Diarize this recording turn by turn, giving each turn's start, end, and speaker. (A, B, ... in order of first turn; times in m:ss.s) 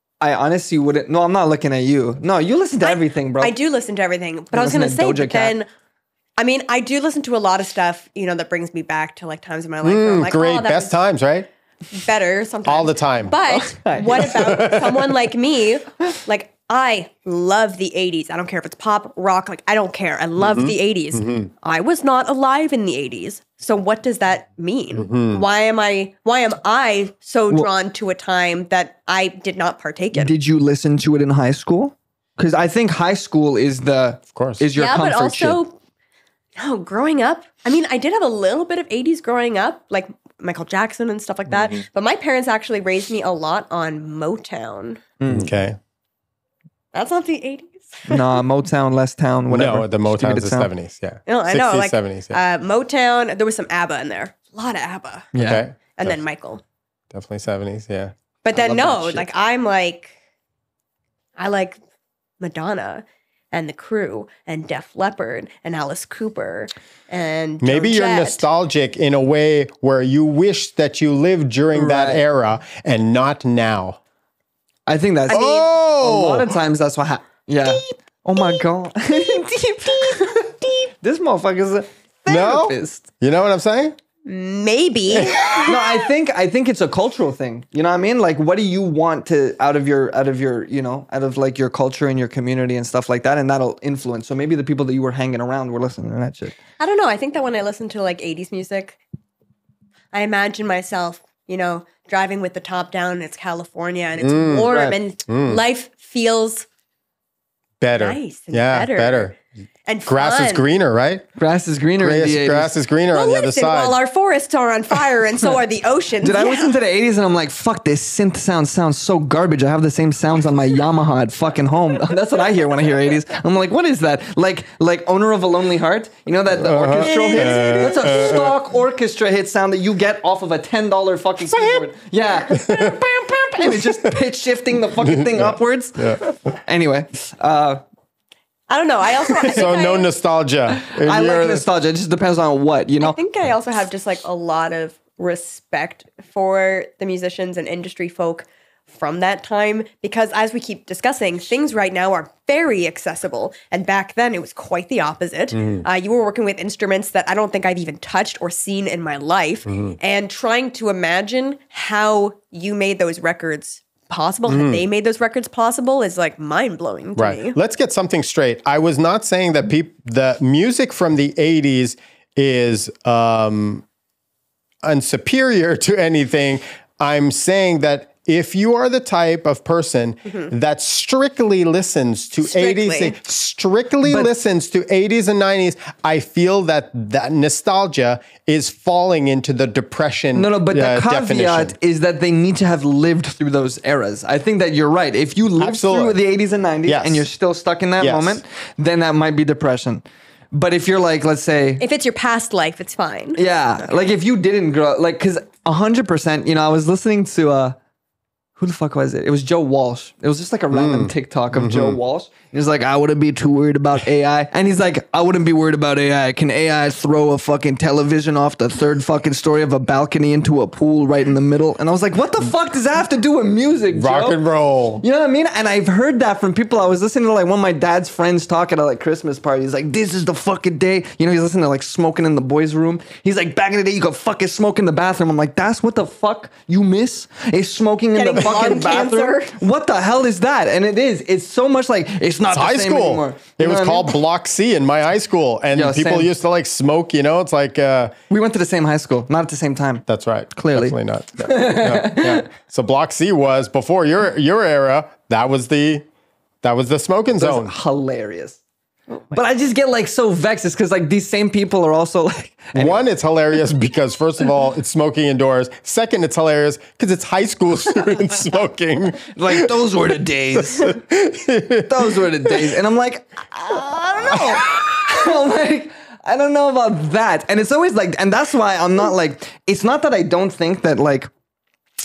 0:00.2-0:03.6 A
0:02.8-0:05.7 B
0:04.5-0:05.6 A
0:06.4-0:11.0 B
0:09.8-0:11.5 C
0:11.9-0:30.3 B
0:12.6-0:13.4 C
0:13.5-0:14.6 A
0:14.2-0:15.1 C
0:20.4-0:21.5 C
0:25.0-0:25.4 C
0:30.1-0:35.6 A
0:34.3-0:34.6 C
0:34.8-0:35.8 B
0:36.6-0:45.0 B
0:45.2-0:45.5 A
0:45.3-0:45.8 C
0:46.9-0:48.3 B
0:48.1-0:50.7 A
0:49.5-0:52.4 C
0:51.3-0:55.3 B
0:55.3-0:55.6 A
0:55.4-0:56.2 C
0:56.0-0:56.6 B
0:57.1-0:58.1 C
0:58.4-1:00.1 B
0:58.5-0:59.3 A
1:01.4-1:01.8 B
1:02.4-1:08.4 B
1:07.6-1:14.0 C
1:11.8-1:12.2 A
1:14.9-1:23.1 A
1:15.3-1:15.7 B
1:15.3-1:16.5 C
1:22.3-1:24.0 C
1:24.3-1:26.0 B
1:25.1-1:25.7 C
1:25.6-1:36.6 A
1:36.8-1:39.0 B
1:40.1-1:46.7 B
1:44.2-1:44.7 C
1:44.7-1:45.0 A
1:45.3-1:45.6 C
1:47.8-1:49.4 C
1:48.0-1:49.3 B
1:49.9-1:50.7 B
1:50.1-1:51.3 C
1:51.4-1:52.7 A
1:52.0-1:54.0 C
1:53.1-1:56.8 B
1:56.2-2:17.8 A
2:06.6-2:08.6 C
2:06.9-2:08.5 B
2:11.5-2:11.9 C
2:12.5-2:13.0 C
2:13.6-2:14.2 C
2:15.0-2:16.2 C
2:18.7-2:20.1 B
2:19.4-2:21.7 C
2:20.8-2:23.2 A
2:23.0-2:47.6 B
2:35.5-2:35.9 C
2:39.7-2:40.0 C
2:44.5-2:44.8 C
2:47.2-2:53.8 C
2:54.8-3:11.8 C
3:02.4-3:03.2 B
3:04.0-3:04.3 A
3:10.4-3:21.8 A
3:15.6-3:16.2 C
3:16.9-3:17.3 C
3:18.0-3:18.4 C
3:21.8-3:23.4 B
3:23.4-3:27.8 A
3:28.6-3:44.4 A
3:30.7-3:32.0 C
3:43.9-3:45.0 C
3:45.0-4:04.1 A
3:58.2-3:59.6 B
4:02.5-4:08.1 C
4:05.8-4:06.3 A
4:08.3-4:12.5 A
4:10.1-4:16.0 C
4:16.6-4:17.7 C
4:17.4-4:18.6 A
4:19.1-4:19.4 B
4:19.3-4:23.0 A
4:22.7-4:29.7 C
4:29.4-4:31.0 A
4:30.6-4:32.8 C
4:31.9-4:41.3 A
4:34.3-4:34.7 C